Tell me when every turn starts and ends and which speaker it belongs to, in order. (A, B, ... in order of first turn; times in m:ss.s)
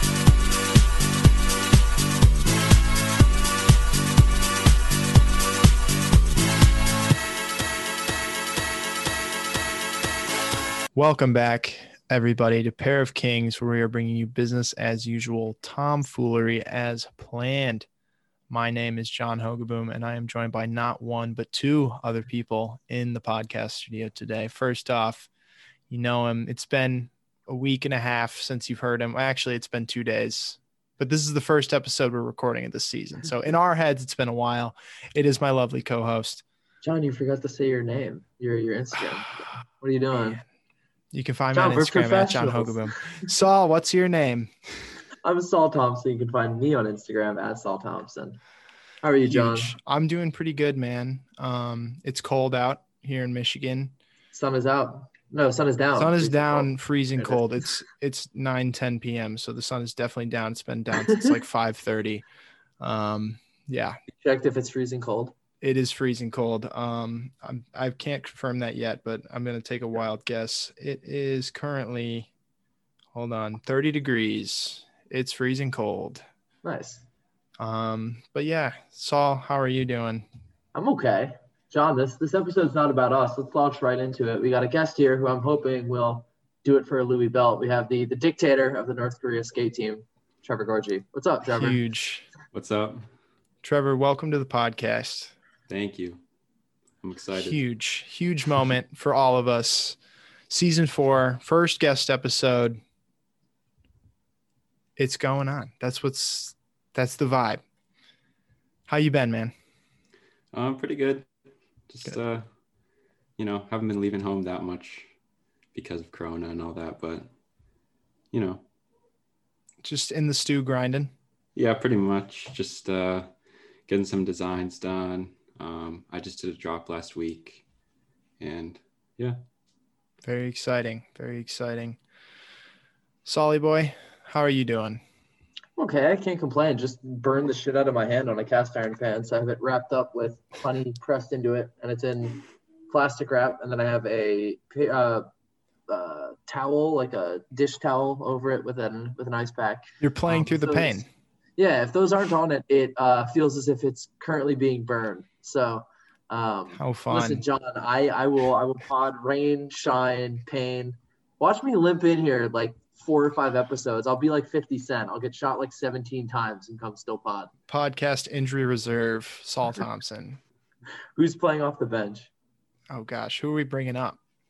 0:10.9-0:17.9 A
0:18.5-0:25.3 A
0:25.9-0:36.4 A
0:36.8-0:40.4 B
0:41.1-0:44.5 A
0:41.5-0:42.9 B
0:45.2-0:48.4 B
0:49.0-0:49.8 B
0:49.3-0:53.9 A
0:54.3-0:57.4 B
0:56.0-1:02.2 A
1:02.8-1:04.0 A
1:04.2-1:05.3 B
1:05.6-1:12.3 A
1:13.1-1:16.2 A
1:16.6-1:17.0 B
1:17.6-1:20.2 A
1:20.7-1:31.8 B
1:31.5-1:32.3 A
1:32.5-1:33.0 C
1:33.6-1:35.3 A
1:35.7-1:36.2 C
1:37.0-1:37.6 C
1:37.3-1:40.0 A
1:40.5-1:42.8 A
1:45.0-1:47.6 A
1:48.9-1:49.5 A
1:50.5-1:51.3 C
1:51.9-1:52.5 C
1:53.4-1:55.1 C
1:55.7-1:57.3 C
1:58.3-1:58.6 C
1:59.8-2:01.1 A
2:01.6-2:03.3 C
2:03.9-2:07.6 C
2:08.4-2:09.4 C
2:10.2-2:12.0 A
2:13.2-2:15.0 A
2:15.8-2:25.3 B
2:25.9-2:31.0 B
2:30.0-2:31.1 A
2:31.6-2:47.5 B
2:36.7-2:37.4 A
2:47.7-2:50.4 A
2:51.2-2:52.3 B
2:52.9-2:54.2 A